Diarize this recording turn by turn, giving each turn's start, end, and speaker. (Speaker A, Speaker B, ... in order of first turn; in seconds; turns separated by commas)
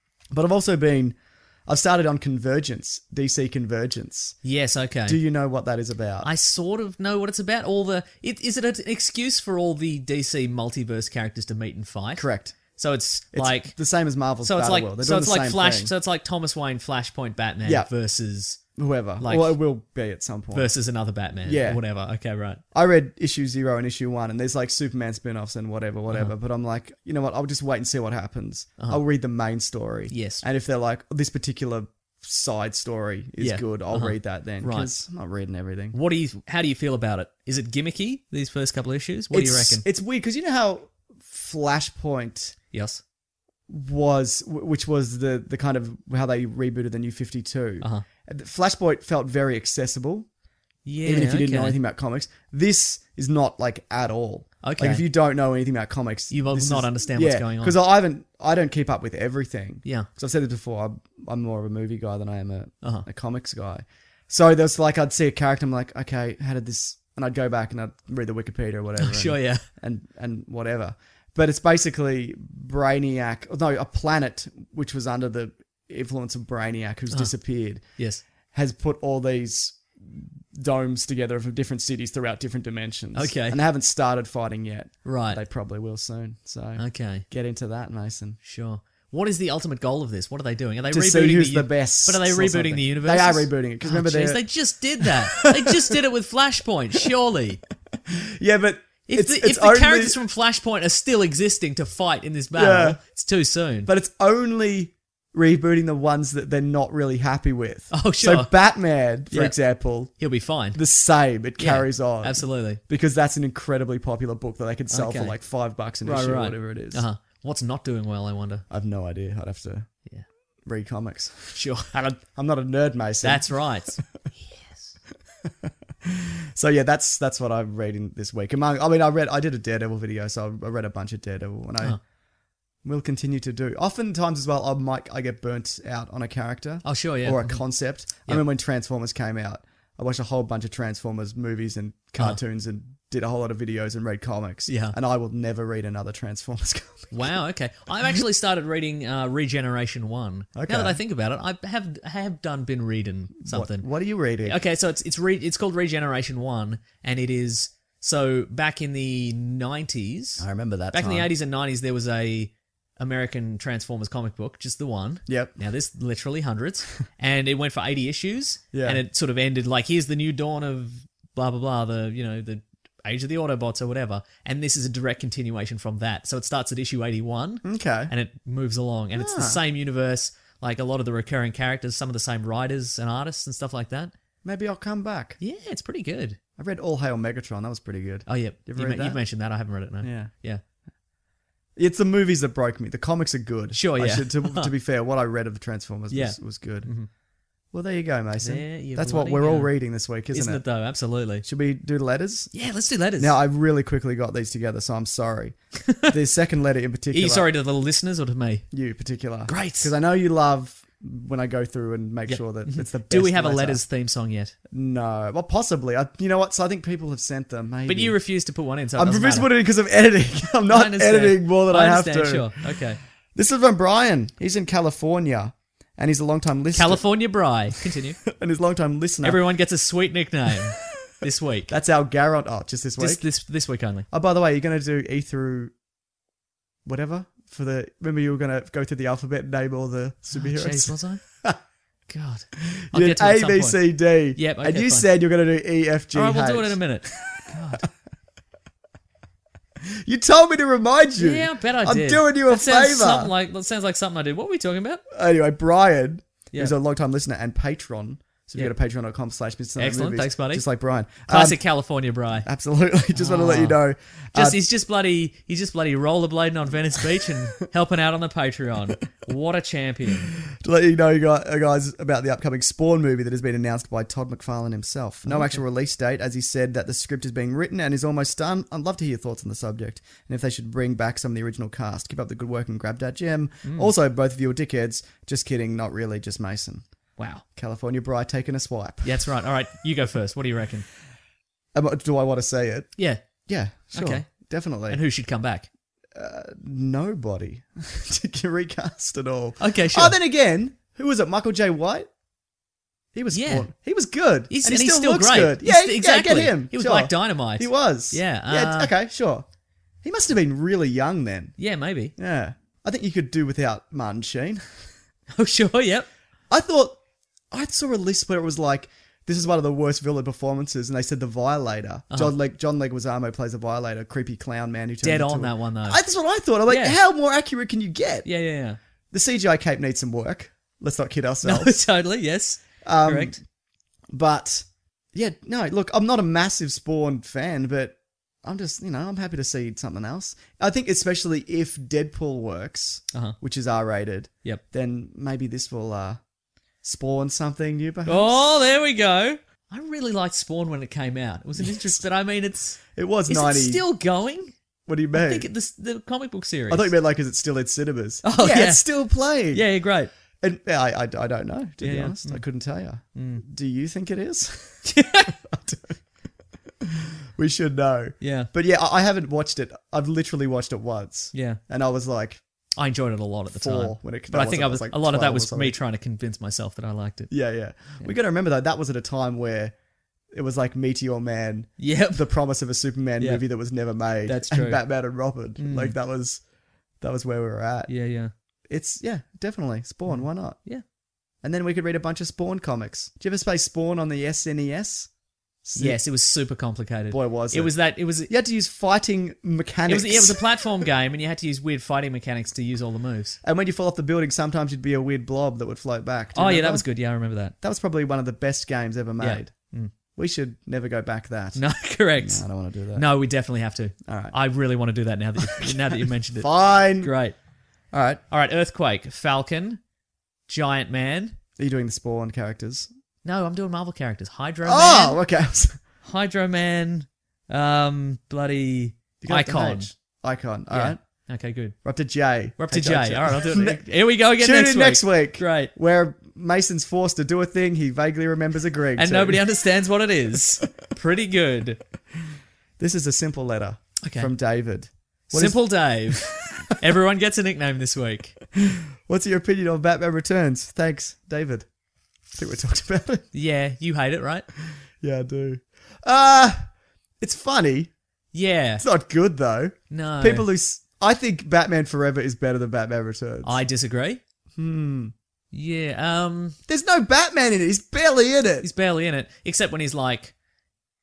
Speaker A: 0.3-4.4, Speaker B: 4.4-5.2, Speaker A: 5.0-6.3, Speaker B: 6.2-13.8, Speaker A: 12.2-12.6, Speaker A: 13.3-15.9, Speaker B: 14.4-18.6, Speaker A: 17.6-17.9, Speaker A: 18.8-20.7, Speaker B: 19.2-19.6, Speaker B: 20.5-22.6, Speaker A: 21.4-21.8, Speaker A: 22.7-36.0, Speaker B: 26.1-26.3, Speaker B: 30.1-30.4, Speaker B: 33.4-35.0, Speaker B: 35.9-39.8, Speaker A: 39.3-42.5, Speaker B: 42.7-43.0, Speaker A: 43.7-50.3, Speaker B: 50.9-51.8, Speaker A: 51.0-78.0, Speaker B: 54.6-55.0, Speaker B: 56.3-57.8, Speaker B: 69.0-69.6, Speaker B: 77.1-78.2, Speaker A: 78.5-88.4, Speaker B: 83.1-83.6, Speaker B: 85.0-85.4, Speaker B: 86.8-87.2, Speaker B: 88.4-97.6, Speaker A: 90.9-94.4, Speaker A: 95.0-95.9, Speaker A: 98.1-100.2, Speaker B: 99.1-103.9, Speaker A: 102.5-103.0, Speaker A: 103.8-117.0, Speaker B: 107.9-108.5, Speaker B: 109.3-110.8, Speaker B: 111.6-112.8, Speaker B: 114.9-115.4, Speaker B: 116.0-118.7, Speaker A: 118.7-119.9, Speaker A: 120.6-124.0, Speaker B: 121.5-122.0, Speaker B: 123.2-124.9, Speaker A: 125.6-132.0, Speaker A: 132.8-147.1, Speaker B: 136.8-138.4, Speaker B: 144.7-144.9, Speaker B: 147.1-153.8, Speaker A: 150.5-151.0, Speaker A: 153.4-154.6, Speaker B: 154.4-184.1, Speaker A: 160.4-161.3, Speaker A: 165.3-165.6, Speaker A: 168.7-169.0, Speaker A: 177.6-178.1, Speaker A: 179.1-179.6, Speaker A: 184.4-185.4, Speaker B: 185.4-186.4, Speaker A: 186.6-189.2, Speaker B: 188.3-190.6, Speaker A: 190.0-190.3, Speaker A: 191.8-197.0, Speaker B: 193.7-194.7, Speaker B: 196.1-197.1, Speaker A: 197.7-200.7, Speaker B: 198.4-199.7, Speaker B: 200.3-201.4, Speaker A: 201.4-202.5, Speaker B: 202.5-203.3, Speaker A: 203.2-207.5, Speaker B: 207.1-208.7, Speaker A: 208.7-213.8, Speaker B: 209.5-209.9, Speaker B: 212.3-214.5, Speaker A: 214.7-218.2, Speaker B: 217.9-219.5, Speaker A: 218.9-222.6, Speaker B: 220.7-223.0, Speaker A: 223.3-227.0, Speaker B: 226.7-228.2, Speaker A: 228.3-229.4, Speaker B: 229.2-231.7, Speaker A: 231.7-233.2, Speaker B: 233.0-234.1, Speaker A: 234.1-235.7, Speaker A: 236.8-241.6, Speaker B: 240.3-241.2, Speaker B: 242.1-245.1, Speaker A: 242.7-247.5, Speaker B: 246.1-247.8, Speaker A: 249.8-253.3, Speaker B: 251.2-255.0, Speaker A: 255.1-261.6, Speaker B: 259.8-260.6, Speaker B: 261.3-262.5, Speaker A: 262.4-264.6, Speaker B: 263.1-263.8, Speaker B: 264.3-270.3, Speaker A: 270.5-286.8, Speaker B: 275.3-275.6, Speaker B: 283.6-283.9, Speaker B: 287.2-287.4, Speaker A: 287.4-289.2, Speaker B: 289.0-290.9, Speaker A: 291.7-295.0, Speaker B: 293.0-293.2, Speaker B: 293.9-295.7, Speaker A: 296.1-302.1, Speaker B: 299.6-300.1, Speaker A: 303.1-309.4, Speaker B: 303.3-303.7, Speaker B: 304.5-308.9, Speaker A: 310.0-311.6, Speaker B: 311.6-312.1, Speaker A: 312.2-314.9, Speaker B: 315.3-316.1, Speaker A: 316.5-317.0, Speaker A: 317.5-328.3, Speaker B: 325.0-326.0, Speaker B: 326.7-327.0, Speaker B: 328.2-328.8, Speaker A: 329.1-331.8, Speaker B: 331.4-333.4, Speaker A: 332.8-333.4, Speaker A: 334.1-346.2, Speaker A: 346.8-348.4, Speaker B: 348.1-354.5, Speaker A: 351.6-352.0, Speaker A: 352.9-353.8, Speaker A: 354.9-355.5, Speaker B: 355.1-356.9, Speaker A: 356.7-359.6, Speaker B: 358.2-360.1, Speaker A: 360.4-365.9, Speaker B: 361.8-362.4, Speaker B: 363.1-363.4, Speaker B: 364.8-365.3, Speaker A: 367.3-372.4, Speaker B: 368.2-368.5, Speaker B: 371.3-371.6, Speaker B: 372.8-377.3, Speaker A: 373.5-375.8, Speaker A: 377.3-379.7, Speaker A: 380.3-386.4, Speaker B: 381.8-382.2, Speaker B: 383.2-383.4, Speaker B: 384.2-384.8, Speaker B: 385.6-386.0, Speaker A: 387.0-387.9, Speaker B: 387.9-388.3, Speaker A: 388.7-390.6, Speaker B: 390.1-390.8, Speaker A: 391.4-395.1, Speaker A: 395.6-396.0, Speaker B: 395.8-398.3, Speaker A: 397.1-400.5, Speaker B: 399.9-403.4, Speaker A: 403.4-406.9, Speaker B: 406.3-407.5, Speaker A: 407.6-409.5, Speaker B: 409.2-409.9, Speaker A: 410.1-411.6, Speaker B: 411.5-417.3, Speaker A: 412.2-413.1, Speaker A: 414.0-414.4, Speaker A: 415.4-417.1, Speaker A: 417.9-418.2, Speaker B: 418.3-419.8, Speaker B: 420.5-421.4, Speaker A: 421.6-422.9, Speaker B: 423.2-425.2, Speaker A: 424.6-425.8, Speaker B: 426.0-429.9, Speaker A: 429.2-431.0, Speaker B: 430.7-431.8, Speaker A: 431.8-439.5, Speaker B: 432.6-435.7, Speaker B: 439.0-441.8, Speaker A: 442.8-446.4, Speaker B: 444.0-444.3, Speaker B: 445.3-448.4, Speaker A: 448.6-451.7, Speaker A: 452.3-453.2, Speaker B: 453.3-454.4, Speaker A: 455.0-457.9, Speaker B: 458.3-458.8, Speaker A: 458.8-463.6, Speaker B: 459.9-460.5, Speaker B: 463.4-464.2, Speaker A: 464.6-465.1, Speaker B: 465.5-466.6, Speaker A: 466.7-468.7, Speaker B: 468.6-470.3